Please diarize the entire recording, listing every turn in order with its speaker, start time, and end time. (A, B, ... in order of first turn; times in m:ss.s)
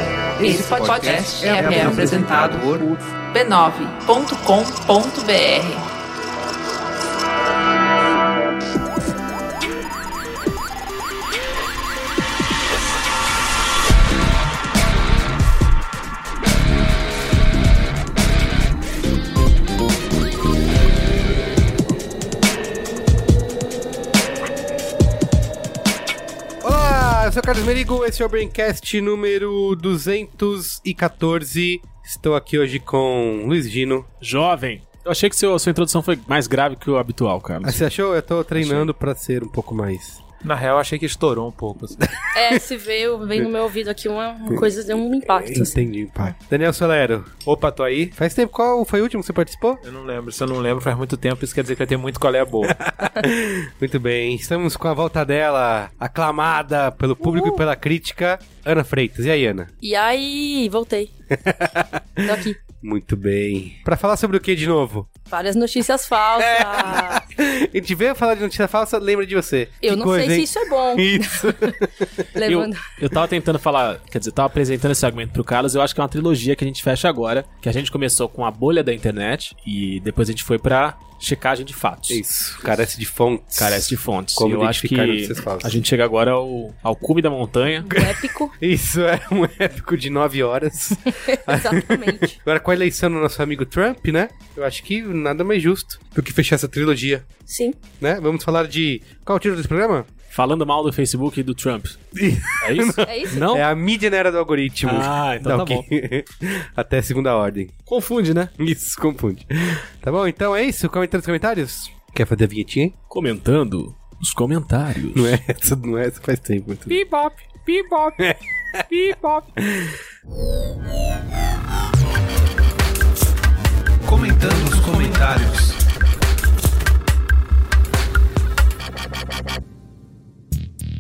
0:00.4-0:05.9 A
0:00.4-0:02.9 B
0:00.4-0:02.9 C
0:26.6-0:34.1 C
0:34.2-0:37.8 D
0:37.6-0:40.2 C
0:38.6-0:38.9 D
0:40.4-0:42.0 B
0:42.2-0:42.6 C
0:42.3-0:45.8 E
0:45.3-0:47.3 C
0:47.4-0:48.2 B
0:48.2-0:49.8 C
0:49.8-0:52.8 B
0:52.7-0:59.7 C
0:57.2-0:57.6 E
0:59.8-1:01.1 E
1:01.3-1:05.1 C
1:02.2-1:02.6 E
1:05.3-1:07.2 E
1:06.4-1:12.6 C
1:09.8-1:11.8 E
1:12.3-1:12.8 E
1:12.5-1:22.2 D
1:22.1-1:25.8 C
1:23.6-1:27.9 D
1:27.8-1:28.5 E
1:27.9-1:37.3 C
1:31.2-1:32.4 E
1:37.5-1:37.8 E
1:38.0-1:40.1 C
1:40.3-1:42.0 D
1:42.2-1:47.7 C
1:42.6-1:43.6 D
1:43.0-1:43.6 E
1:44.8-1:45.9 D
1:47.9-1:48.5 D
1:48.6-1:53.0 C
1:53.1-1:55.4 D
1:55.1-1:57.0 C
1:56.9-1:58.2 D
1:58.2-1:58.8 C
1:58.9-1:59.5 D
1:59.6-2:00.0 C
2:04.1-2:05.8 B